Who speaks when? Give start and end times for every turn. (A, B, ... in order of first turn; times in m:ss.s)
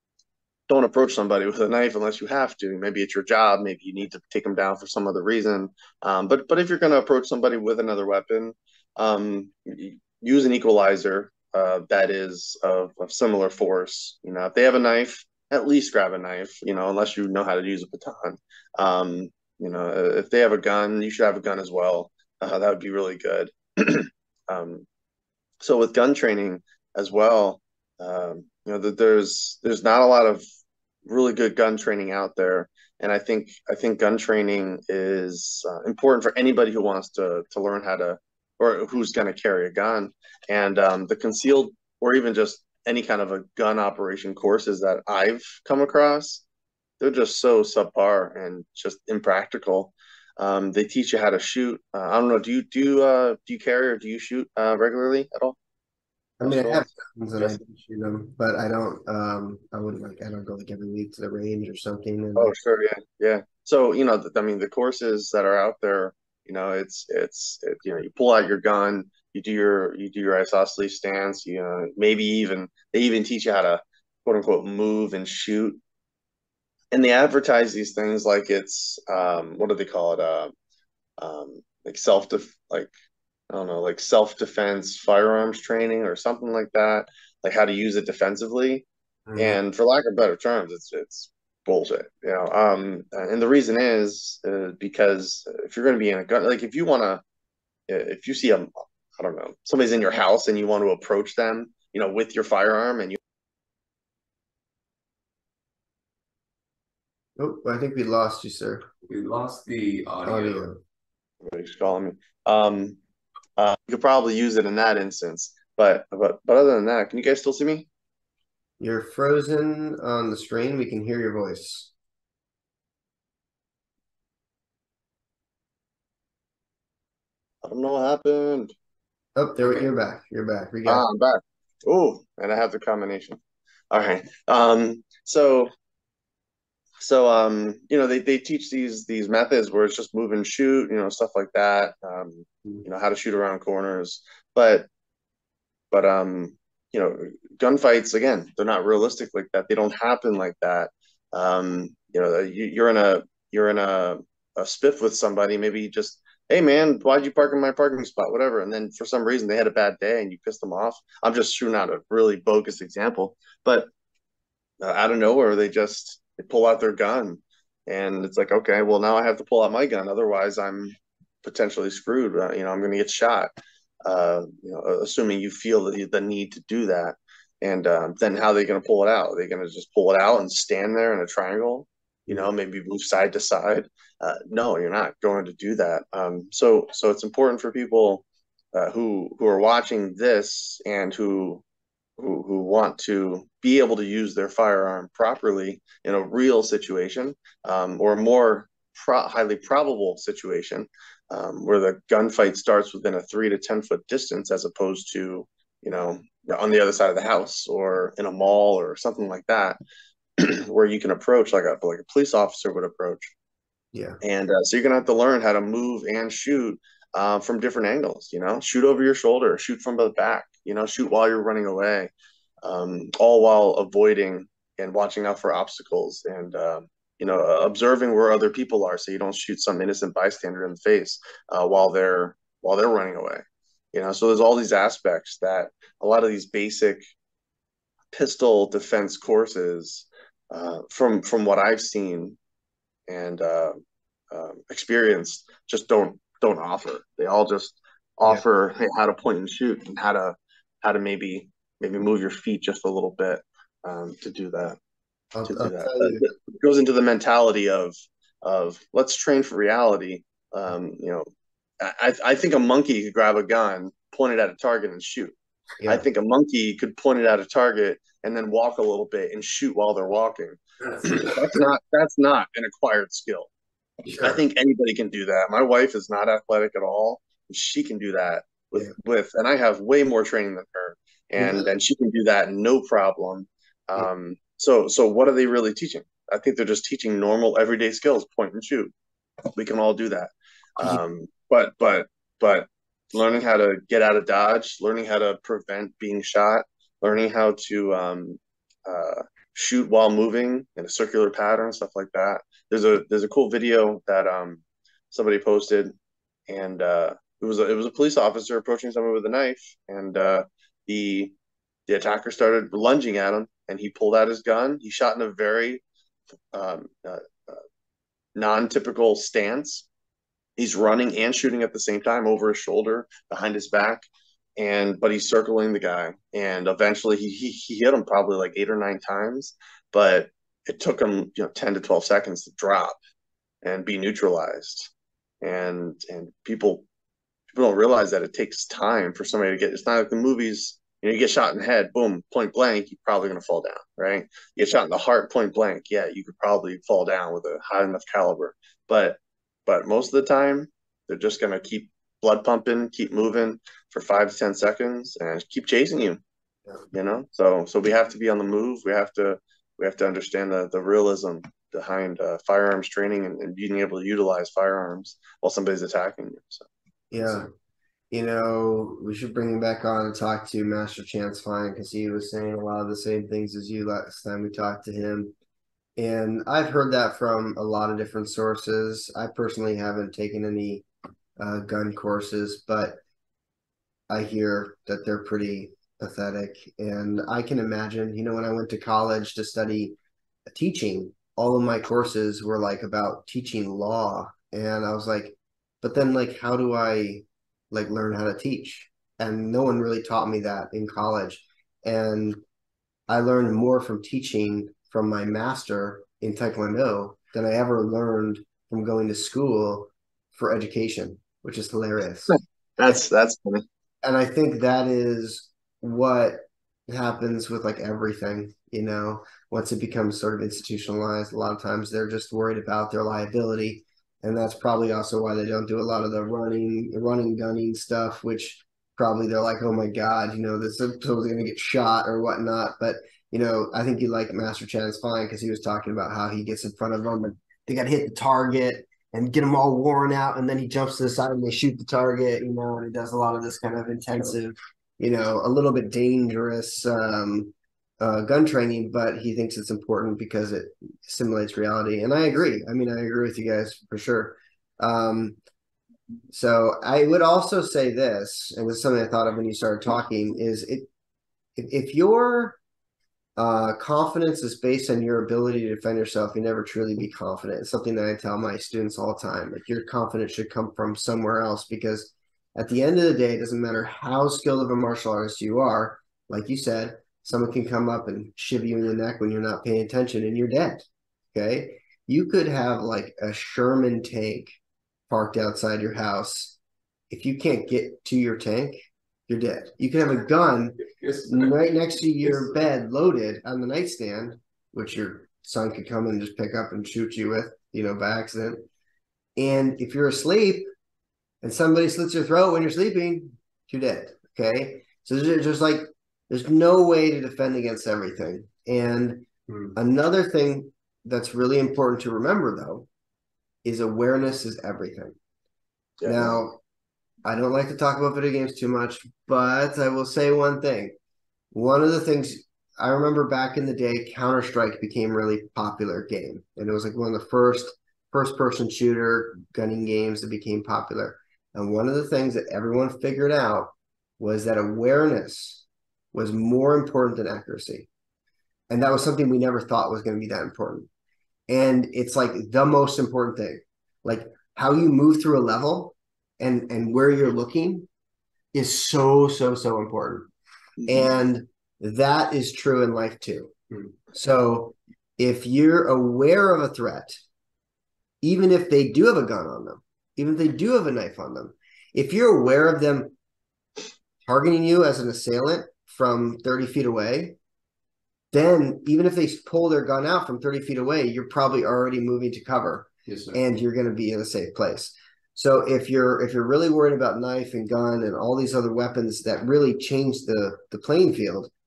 0:00.7-0:24.8 A
0:25.6-0:30.4 A
0:31.1-0:46.4 A
0:47.0-0:55.6 A
0:56.4-1:02.5 B
0:56.4-0:57.6 A
1:02.4-1:15.8 A
1:16.9-1:20.5 A
1:21.2-1:22.9 A
1:23.5-1:28.8 A
1:29.3-1:29.6 B
1:29.4-1:37.2 A
1:37.9-1:43.2 A
1:47.4-1:48.9 B
1:49.1-1:50.6 C
1:50.3-1:50.8 B
1:51.4-1:53.0 A
1:53.6-1:57.9 A
1:58.8-2:01.9 B
2:07.6-2:08.7 A
2:09.4-2:11.0 B
2:10.9-2:13.4 A
2:13.9-2:15.7 A
2:17.0-2:24.9 A
2:25.9-2:43.9 A
2:44.8-2:53.5 A
2:54.0-3:11.6 A
3:12.2-3:29.8 A
3:30.4-3:33.3 A
3:34.2-3:42.1 A
3:42.6-3:57.0 A
3:58.1-4:02.4 A
4:03.1-4:03.8 A
4:04.3-4:14.8 A
4:15.3-4:16.3 B
4:15.4-4:21.3 A
4:21.8-4:25.3 A
4:25.9-4:33.5 A
4:30.8-4:31.6 B
4:34.0-4:34.4 B
4:34.2-4:48.9 A
4:41.4-4:41.8 B
4:49.6-5:05.9 A
5:06.5-5:11.3 A
5:11.9-5:15.8 A
5:16.5-5:17.6 A
5:18.4-5:19.9 A
5:20.6-5:24.1 A
5:24.6-5:33.0 A
5:33.6-5:34.9 A
5:35.4-5:36.8 A
5:37.5-5:56.2 A
5:56.9-6:07.4 A
6:07.1-6:07.5 B
6:08.1-6:15.3 B
6:16.0-6:20.8 B
6:21.4-6:23.0 B
6:24.1-6:30.0 B
6:30.5-6:42.4 B
6:43.1-6:52.4 B
6:52.3-6:53.6 A
6:54.0-7:35.4 B
7:36.3-7:40.9 B
7:41.6-7:42.6 B
7:43.4-8:04.6 B
8:05.1-8:06.6 B
8:07.1-8:18.6 B
8:11.0-8:11.4 C
8:19.4-8:20.7 B
8:21.4-8:32.9 B
8:29.5-8:29.7 C
8:33.6-8:35.2 B
8:36.0-8:36.4 A
8:36.0-8:36.6 B
8:37.2-8:41.0 B
8:41.5-8:57.9 B
8:58.7-9:00.9 B
9:01.5-9:07.9 B
9:08.5-9:10.3 B
9:10.9-9:13.5 B
9:14.1-9:17.2 B
9:18.2-9:23.2 B
9:24.2-9:27.4 B
9:28.3-9:41.5 B
9:33.1-9:33.4 C